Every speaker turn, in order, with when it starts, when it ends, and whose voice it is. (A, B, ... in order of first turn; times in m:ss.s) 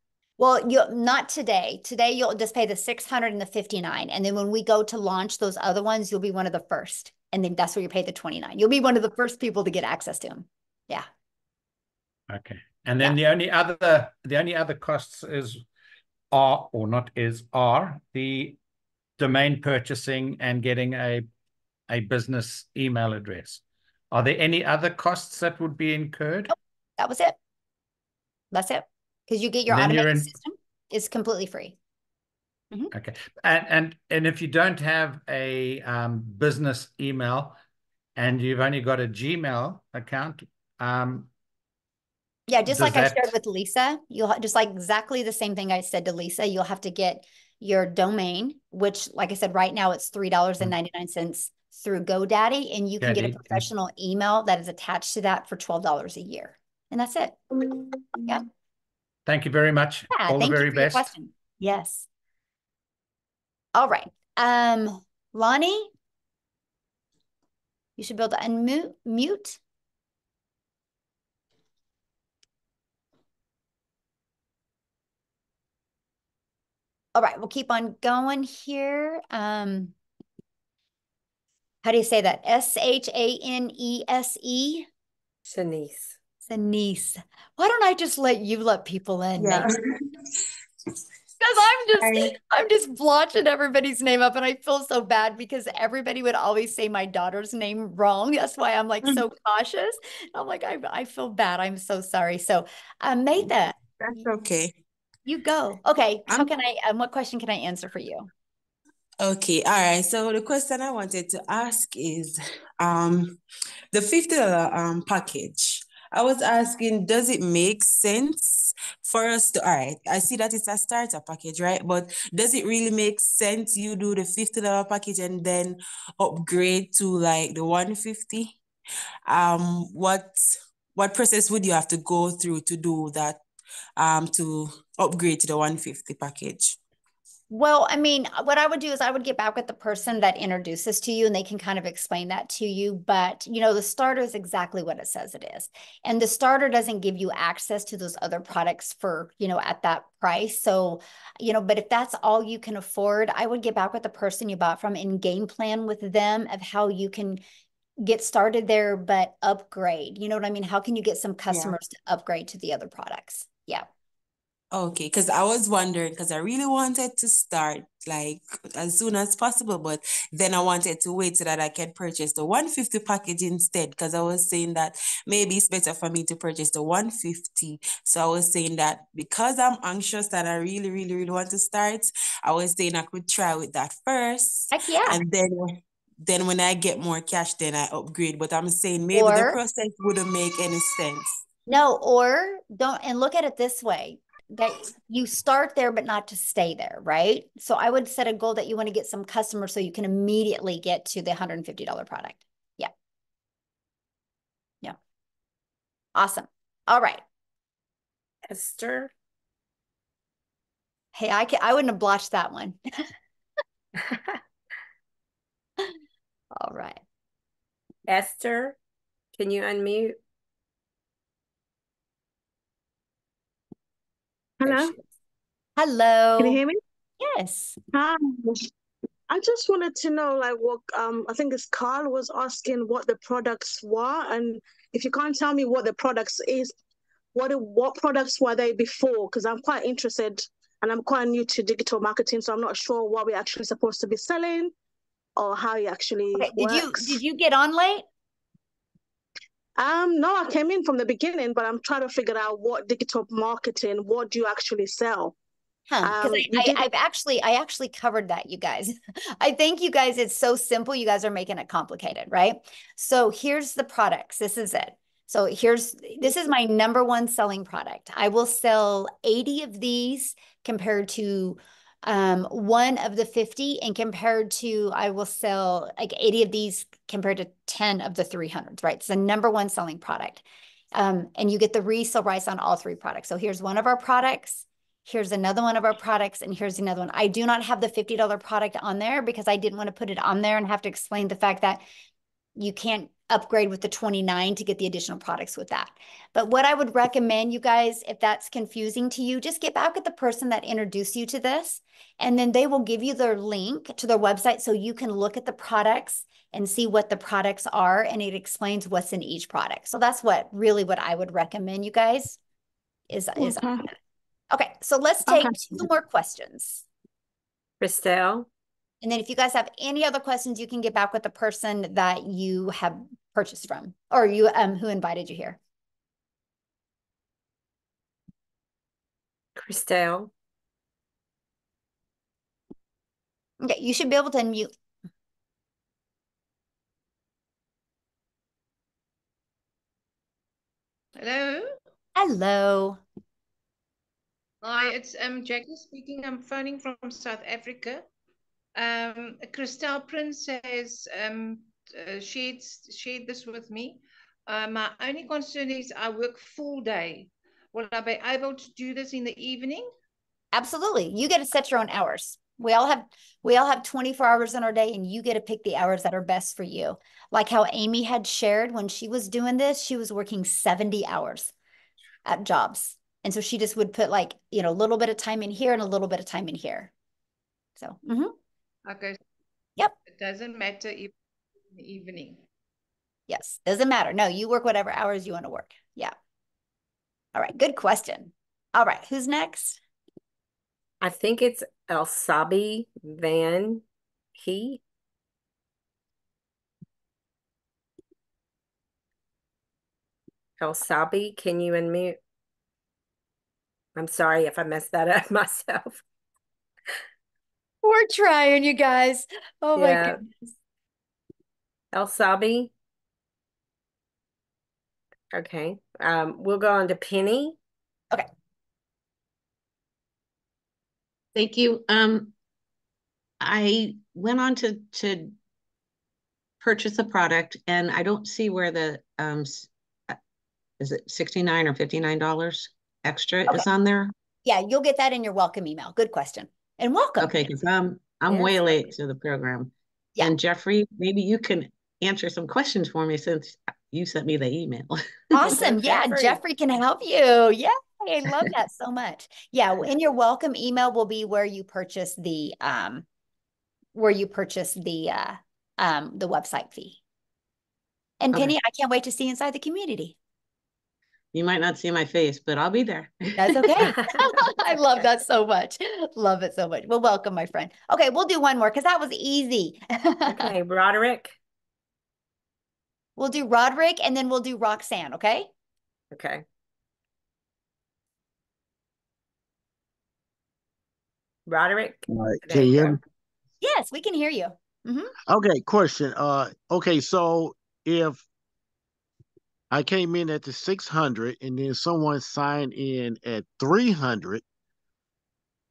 0:00.4-0:11.1 A
0:12.3-0:15.6 B
0:16.3-0:18.6 B
0:19.2-0:21.3 B
0:21.9-0:26.5 B
0:26.5-0:27.4 A
0:28.5-0:31.7 A
0:29.7-0:30.3 B
0:32.9-0:37.6 B
0:38.2-0:41.3 B
0:42.5-0:58.4 A
0:42.6-0:43.4 B
0:53.0-0:53.7 B
0:59.2-1:01.1 B
1:00.1-1:02.0 A
1:03.7-1:05.9 A
1:08.0-1:09.6 A
1:17.1-1:19.9 A
1:21.8-1:24.8 A
1:25.4-1:26.2 C
1:26.5-1:29.7 A
1:31.4-1:43.7 A
1:44.0-1:44.7 D
1:45.2-1:48.3 A
1:49.2-1:53.4 D
1:53.9-2:08.6 D
2:09.3-2:13.4 D
2:14.0-2:16.8 D
2:17.5-2:37.4 A
2:38.0-2:43.8 A
2:41.5-2:41.8 D
2:44.7-3:11.4 D
3:04.7-3:05.2 A
3:09.1-3:09.6 A
3:11.7-3:22.9 A
3:26.2-3:27.2 A
3:28.4-3:29.1 C
3:31.1-3:32.8 A
3:34.0-3:34.4 C
3:36.6-3:37.0 A
3:38.1-3:38.8 C
3:39.3-3:40.2 C
3:44.6-3:45.0 E
3:45.8-3:46.6 A
3:46.4-3:46.8 E
3:47.2-3:47.8 A
3:47.9-3:48.7 E
3:49.3-3:56.8 E
3:57.3-4:04.7 E
4:05.4-4:07.2 E
4:06.3-4:08.0 A
4:09.8-4:15.3 E
4:15.9-4:51.8 A
4:16.0-4:16.9 E
4:52.6-5:12.4 A
5:13.1-5:13.9 A
5:14.5-5:16.8 A
5:17.8-5:18.5 C
5:19.0-5:25.6 A
5:29.5-5:30.3 C
5:33.6-5:34.7 A
5:41.1-5:41.8 F
5:42.2-5:43.0 A
5:44.6-5:48.0 F
5:48.8-5:59.9 F
6:00.5-6:11.5 A
6:12.2-6:16.9 A
6:17.8-6:18.3 A
6:18.8-6:19.2 F
6:20.0-6:21.1 F
6:21.7-6:22.4 F
6:23.3-6:26.1 A
6:27.3-6:29.8 A
6:31.0-6:33.8 C
6:34.3-6:34.8 C
6:40.6-6:42.2 C
6:43.9-6:46.0 C
6:47.8-6:50.5 A
6:49.8-6:50.2 C
6:51.9-6:52.7 C
6:55.3-6:57.6 C
7:01.3-7:02.3 G
7:03.4-7:05.3 G
7:06.6-7:10.2 G
7:10.8-7:14.1 G
7:14.4-7:17.3 A
7:17.2-7:25.7 G
7:18.3-7:18.5 C
7:25.3-7:33.0 A
7:25.4-7:26.4 C
7:33.9-7:37.0 A
7:38.2-7:40.2 A
7:41.3-7:43.9 G
7:43.4-7:50.5 A
7:43.8-7:45.0 C
7:50.3-7:51.4 C
7:53.2-7:55.5 A
7:56.1-7:56.4 C
8:01.5-8:03.0 C
8:02.1-8:03.0 H
8:03.6-8:05.1 A
8:05.3-8:08.2 H
8:09.7-8:14.4 H